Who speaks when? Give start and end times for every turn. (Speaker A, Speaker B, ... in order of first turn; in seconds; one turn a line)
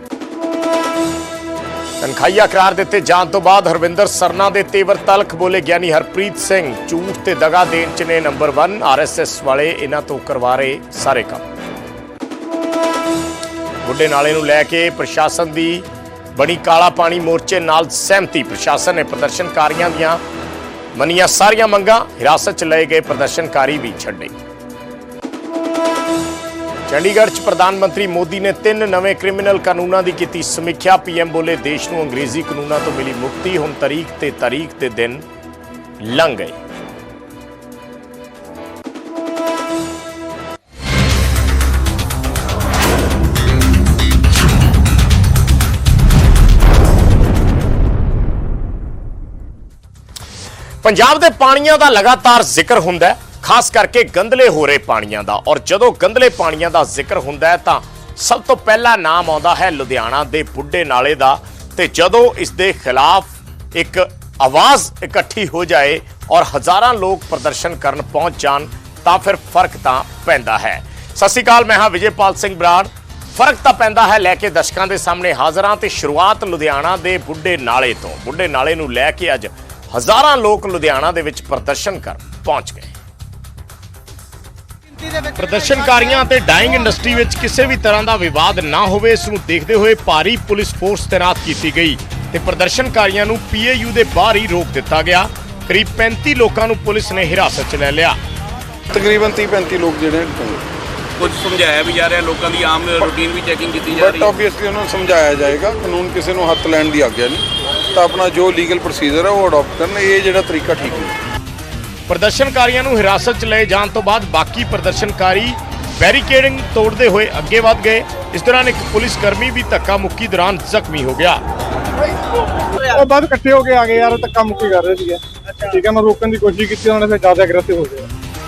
Speaker A: 2.0-11.4
Speaker A: 13.8-20.2
Speaker A: 20.9-24.3
Speaker A: 26.9-35.2
Speaker A: 36.0-36.5
Speaker A: 50.8-82.9
Speaker A: 85.4-98.2
Speaker B: 98.9-100.6
Speaker C: 101.2-104.4
Speaker B: 103.9-107.4
Speaker B: 108.0-111.1
Speaker A: 112.1-121.4
Speaker D: 123.0-128.1